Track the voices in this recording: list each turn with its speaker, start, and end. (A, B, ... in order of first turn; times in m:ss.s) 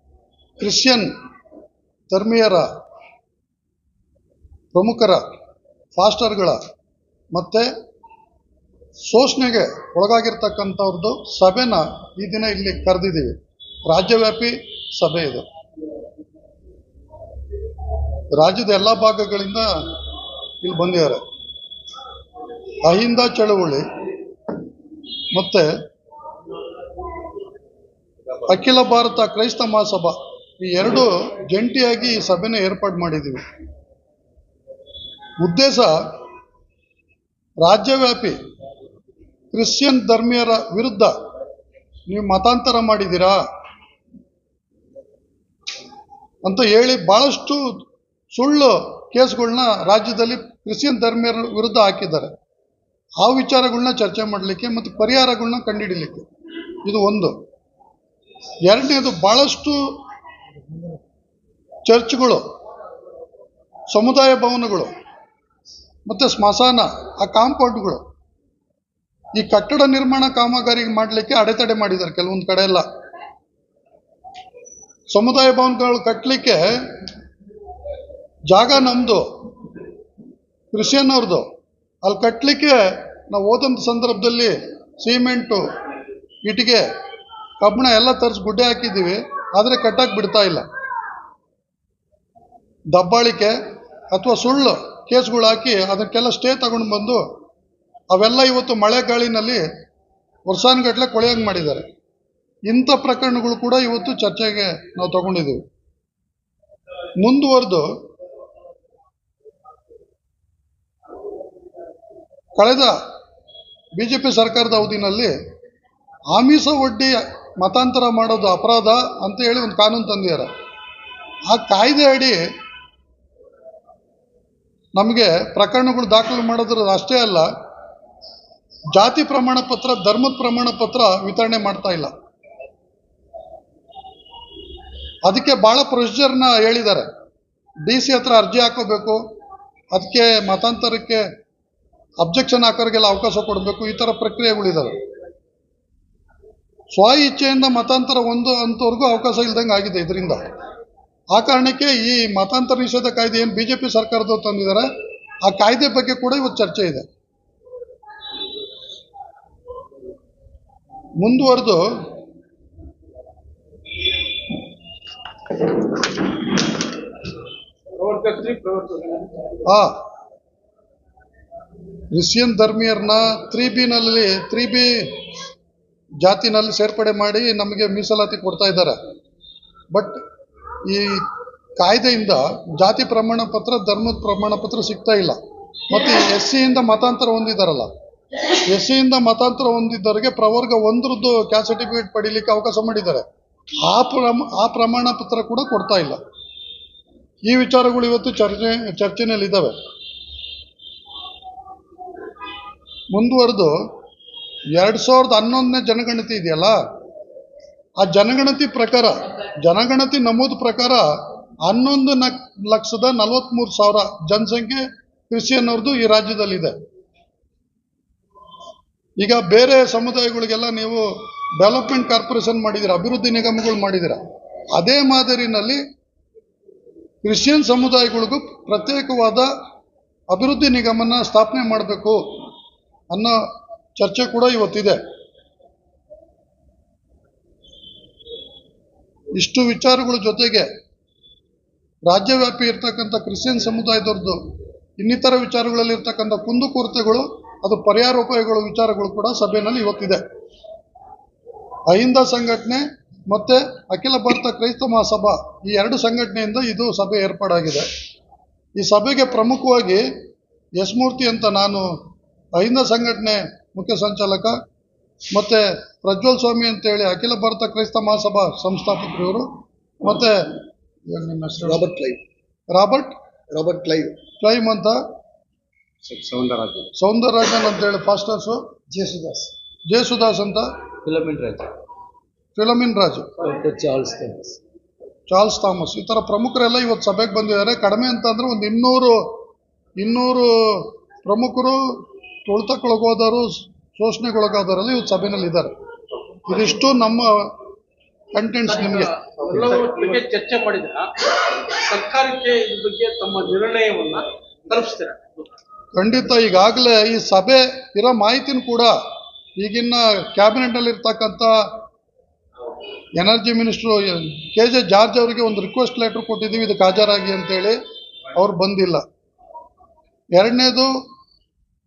0:00.6-0:01.1 A
0:02.1-0:02.7 A
0:04.7-0:05.2 A
0:06.0-0:06.6 A
0:07.3-0:07.7 A
0:09.0-0:13.3 A
0:13.9-0:15.4 A
0:18.3-0:19.7 A
0:20.6-0:21.2 A
0:22.8-0:23.8 A
0:25.3-0:25.7 A
0:28.4-0:33.4 A
0:35.4-0:36.0 A
0:37.6-0:38.4 A
0:39.5-0:41.1 A
0:42.1-0:43.4 A
0:46.4-0:52.3 A
0:53.2-0:56.3 A
0:56.8-0:57.3 A
0:58.6-0:59.8 A
1:01.8-1:02.4 A
1:03.9-1:04.9 A
1:06.0-1:08.0 A
1:09.4-1:12.8 A
1:15.1-1:16.8 A
1:18.5-1:19.2 A
1:20.7-1:21.4 A
1:22.0-1:25.6 A
1:26.4-1:26.8 A
1:27.6-1:30.6 A
1:32.9-1:33.5 A
1:34.1-1:37.2 A
1:38.1-1:39.6 A
1:40.5-1:41.8 A
1:42.7-1:45.6 A
1:47.2-1:47.9 A
1:52.6-1:53.0 A
1:53.9-1:55.3 A
1:56.3-2:00.5 A
2:01.5-2:02.4 A
2:05.0-2:07.5 A
2:08.9-2:12.1 A
2:15.2-2:17.1 A
2:17.8-2:19.2 A
2:19.9-2:21.2 A
2:22.2-2:25.0 A
2:26.9-2:30.4 A
2:31.3-2:34.9 A
2:35.4-2:37.0 A
2:41.2-2:41.9 A
2:47.9-2:49.6 B
2:49.6-2:49.9 A
2:52.1-2:55.1 A
2:56.2-2:59.0 A
2:59.9-3:00.2 A
3:00.8-3:05.4 A
3:05.9-3:07.9 A
3:08.7-3:13.2 A
3:13.9-3:16.2 A
3:17.4-3:19.7 A
3:23.1-3:23.8 A
3:24.7-3:26.8 A
3:28.0-3:31.0 A
3:31.6-3:36.8 A
3:39.2-3:41.1 A
3:41.6-3:44.2 A
3:44.7-3:45.8 A
3:47.2-3:49.5 A
3:50.3-3:52.2 A
3:53.1-3:53.4 A
3:54.0-3:55.0 A
3:59.4-4:00.7 A
4:02.1-4:04.4 A
4:05.0-4:10.2 A
4:11.9-4:17.8 A
4:18.8-4:20.0 A
4:20.8-4:21.9 A
4:22.5-4:24.5 A
4:25.3-4:29.5 A
4:30.0-4:31.9 A
4:31.6-4:32.2 C
4:32.7-4:33.1 A
4:33.5-4:34.2 C
4:34.4-4:35.0 A
4:36.0-4:36.9 C
4:36.9-4:38.6 A
4:38.9-4:39.5 C
4:39.9-4:40.7 A
4:41.0-4:41.7 C
4:42.6-4:43.3 A
4:43.4-4:44.6 C
4:45.3-4:49.2 A
4:50.0-4:51.8 A
4:52.4-4:55.7 A
4:56.4-4:57.4 A
4:58.3-4:59.1 A
4:58.8-5:05.4 B
5:05.9-5:08.9 A
5:09.6-5:11.5 A
5:13.2-5:17.8 A
5:18.3-5:19.0 A
5:20.3-5:20.9 A